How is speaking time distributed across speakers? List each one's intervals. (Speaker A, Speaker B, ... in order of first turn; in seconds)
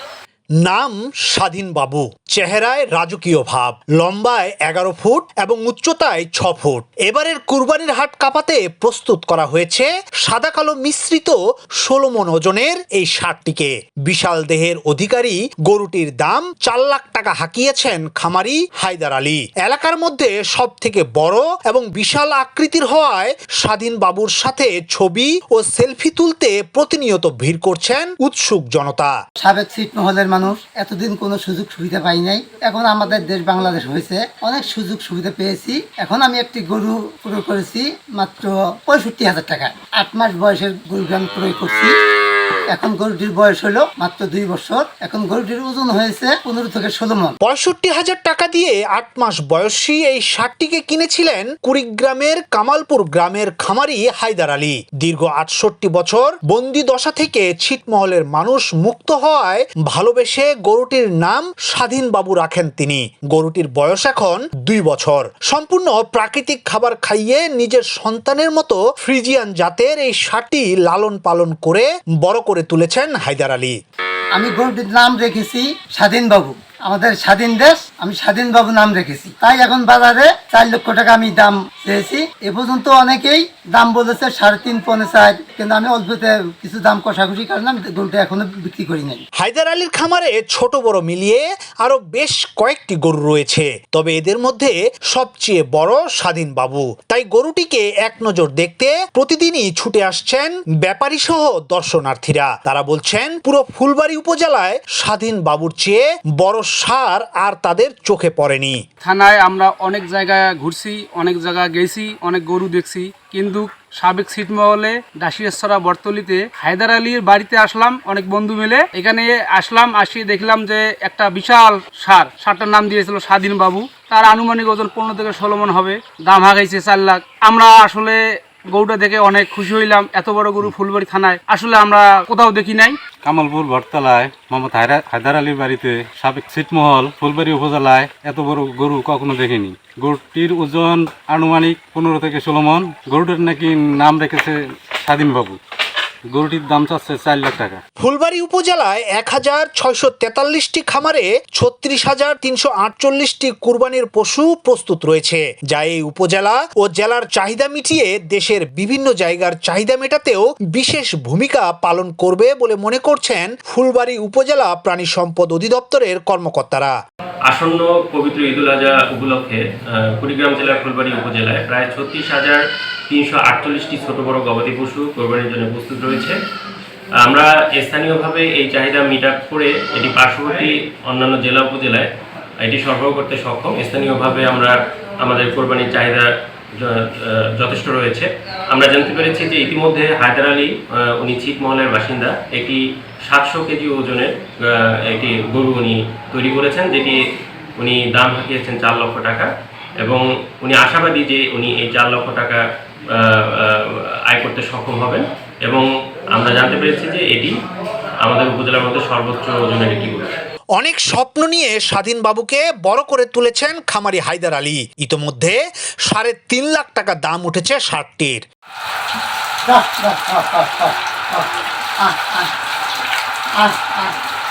Speaker A: 0.6-29.1, 47.4-73.8, 89.4-108.8, 148.0-166.9, 210.8-218.4
Speaker B: 29.4-41.9, 42.7-47.4, 74.3-89.2, 219.7-221.5, 222.0-222.5, 223.6-224.2
Speaker C: 109.0-133.1
Speaker D: 133.2-145.6, 146.3-147.8
Speaker E: 167.5-176.4, 177.2-182.1, 182.6-197.2, 197.8-199.5, 200.0-207.5, 208.2-210.3